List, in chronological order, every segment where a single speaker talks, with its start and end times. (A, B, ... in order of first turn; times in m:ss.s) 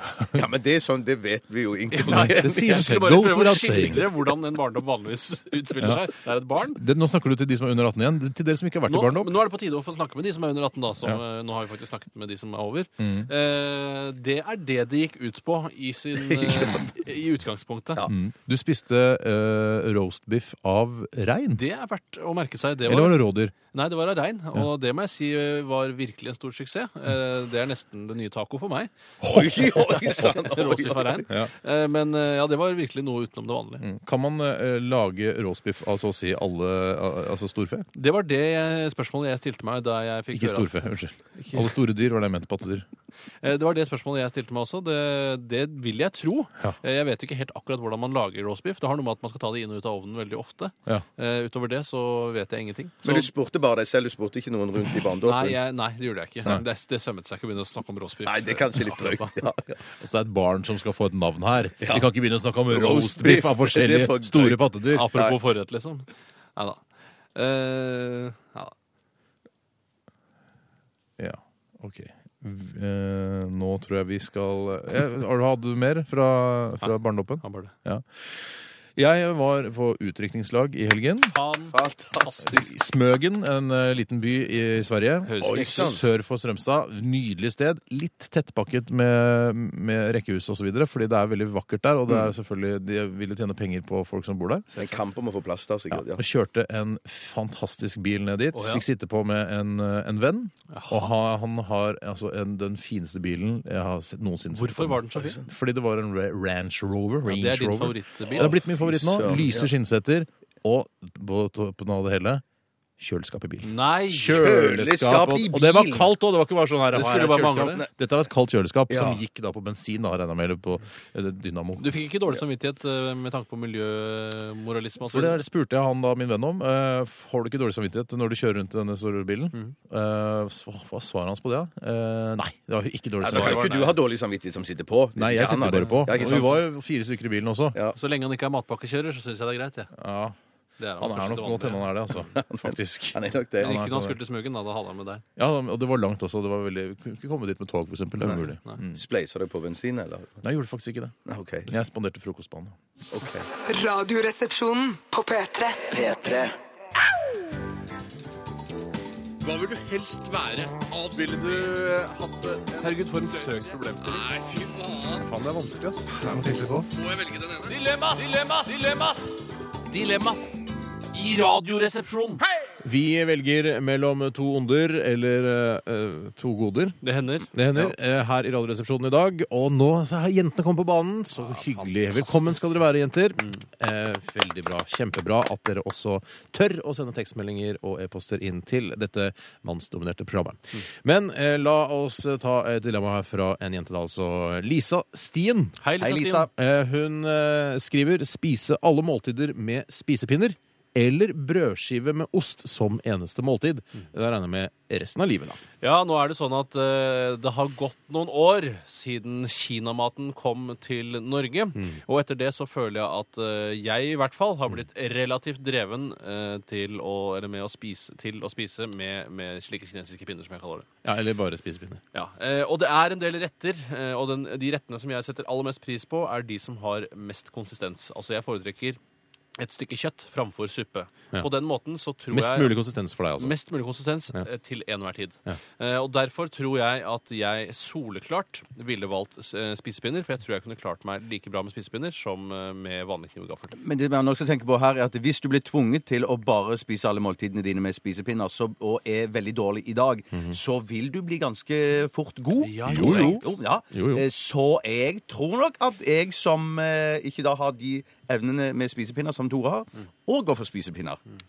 0:00.3-0:03.0 A
0:01.9-0:06.8 B
0:02.1-0:04.1 C
0:06.7-0:09.3 C
0:08.9-0:18.1 B
0:13.0-0:13.3 C
0:16.4-0:16.8 A
0:18.1-0:21.6 C
0:21.6-0:33.8 B
0:22.9-0:23.5 C
0:29.2-0:30.4 C
0:29.2-0:31.3 A
0:33.8-0:37.9 C
0:38.0-0:41.7 B
0:40.3-0:42.9 C
0:43.4-0:53.3 B
0:53.0-0:55.6 A
0:55.2-0:59.5 B
0:58.2-0:59.8 A
1:00.0-1:05.1 C
1:01.8-1:02.1 A
1:02.7-1:05.4 A
1:04.9-1:06.8 B
1:07.4-1:08.7 B
1:11.2-1:21.3 C
1:16.8-1:17.7 B
1:21.2-1:22.6 B
1:21.7-1:22.7 A
1:22.5-1:34.7 C
1:25.2-1:26.0 B
1:25.4-1:26.1 A
1:34.7-1:35.1 B
1:34.8-1:36.2 A
1:35.9-1:52.4 C
1:38.5-1:38.9 B
1:40.7-1:41.1 B
1:44.5-1:45.4 B
1:47.2-1:48.6 B
1:48.3-1:49.7 A
1:53.0-2:01.9 C
1:53.6-1:54.5 B
1:54.3-1:56.1 A
1:56.9-1:57.8 B
1:58.9-1:59.2 A
2:01.8-2:05.4 B
2:05.1-2:13.8 C
2:13.2-2:16.6 A
2:13.2-2:14.0 B
2:15.2-2:17.8 C
2:15.9-2:16.5 B
2:18.0-2:19.9 B
2:20.0-2:20.4 C
2:20.8-2:21.9 B
2:21.0-2:24.2 C
2:22.3-2:23.8 A
2:23.6-2:25.2 B
2:25.4-2:29.0 C
2:28.2-2:30.4 A
2:30.4-2:31.2 C
2:31.3-2:31.7 A
2:31.7-2:33.5 C
2:33.1-2:33.5 A
2:33.7-2:36.5 D
2:39.4-2:45.3 B
2:45.2-2:46.9 C
2:46.9-2:49.4 B
2:49.9-2:52.4 B
2:52.8-2:57.0 C
2:57.0-2:57.9 B
2:57.5-3:15.8 C
3:01.4-3:02.6 B
3:15.8-3:16.5 B
3:16.0-3:16.5 A
3:16.5-3:25.6 C
3:25.8-3:40.9 B
3:31.8-3:32.0 C
3:41.0-3:42.0 C
3:42.1-3:49.0 B
3:49.6-3:52.8 B
3:52.3-3:53.6 C
3:53.4-4:03.8 B
4:03.8-4:21.2 A
4:12.6-4:13.5 B
4:12.8-4:14.2 C